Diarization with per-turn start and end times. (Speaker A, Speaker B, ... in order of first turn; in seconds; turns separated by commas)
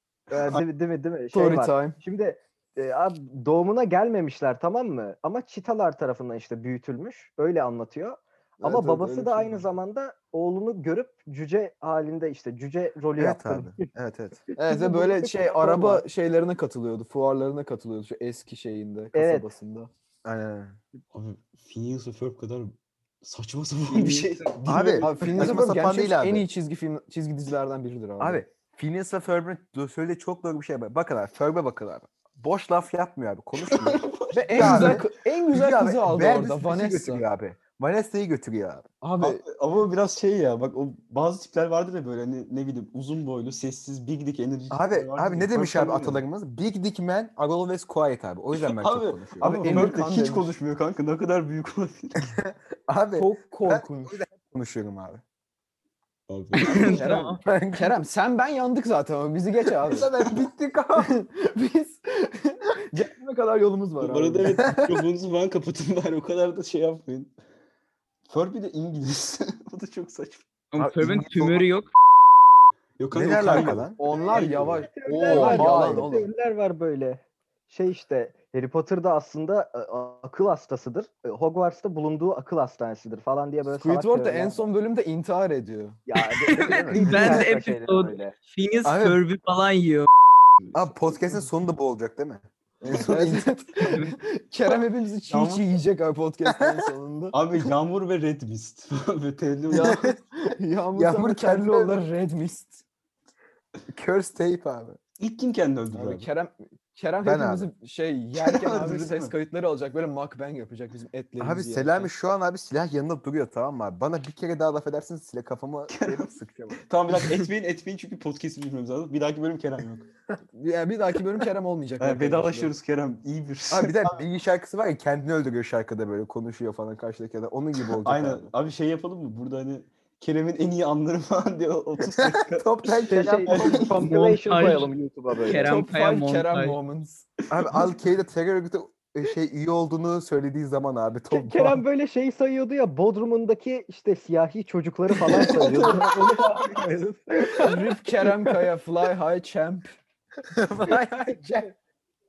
Speaker A: 0.3-13.9, Speaker B: 0.3-0.6, Speaker C: 1.3-2.0, Speaker C: 8.6-9.7, Speaker D: 13.2-14.4, Speaker A: 14.5-16.0, Speaker C: 14.6-19.9, Speaker A: 19.1-19.5, Speaker D: 20.2-20.8, Speaker B: 21.1-25.6, Speaker E: 23.9-24.6, Speaker D: 24.6-26.4, Speaker C: 25.0-28.4, Speaker D: 28.2-38.9, Speaker B: 33.6-35.0, Speaker C: 34.3-37.2, Speaker C: 39.0-39.4, Speaker B: 39.2-46.2, Speaker D: 44.7-50.0, Speaker B: 48.5-52.4, Speaker C: 49.4-50.5, Speaker D: 52.4-55.2, Speaker C: 53.1-54.2, Speaker B: 56.3-56.9, Speaker E: 56.5-57.4, Speaker C: 56.8-60.1, Speaker D: 57.4-57.9, Speaker D: 59.9-61.1, Speaker C: 61.0-64.8, Speaker B: 64.0-67.3, Speaker B: 68.3-70.5, Speaker E: 70.7-71.9, Speaker D: 70.8-71.7, Speaker B: 73.0-75.7, Speaker D: 73.1-74.0, Speaker C: 74.0-76.3, Speaker A: 74.3-84.6, Speaker D: 75.3-76.1, Speaker C: 83.7-86.0, Speaker A: 86.1-88.4, Speaker E: 86.2-90.1, Speaker D: 86.6-87.5, Speaker D: 88.8-89.2, Speaker D: 90.7-92.4, Speaker C: 92.8-97.4, Speaker B: 92.9-93.6, Speaker B: 95.3-95.8, Speaker D: 96.5-96.8, Speaker B: 97.3-100.2, Speaker C: 99.7-102.8, Speaker D: 101.0-102.0, Speaker D: 103.9-105.0, Speaker B: 105.2-106.3, Speaker C: 105.9-112.1, Speaker D: 107.2-107.7, Speaker B: 108.4-109.3, Speaker D: 111.4-116.8, Speaker B: 115.9-120.1, Speaker C: 120.5-122.7, Speaker B: 122.0-124.2, Speaker D: 123.7-128.5, Speaker B: 127.9-132.9, Speaker D: 132.2-133.9, Speaker A: 133.1-135.7, Speaker B: 133.5-134.1, Speaker E: 134.0-136.8, Speaker C: 135.5-137.2, Speaker D: 137.5-141.8, Speaker B: 137.6-137.9, Speaker A: 141.3-147.8, Speaker B: 145.3-146.0, Speaker C: 147.5-150.0, Speaker D: 150.5-151.7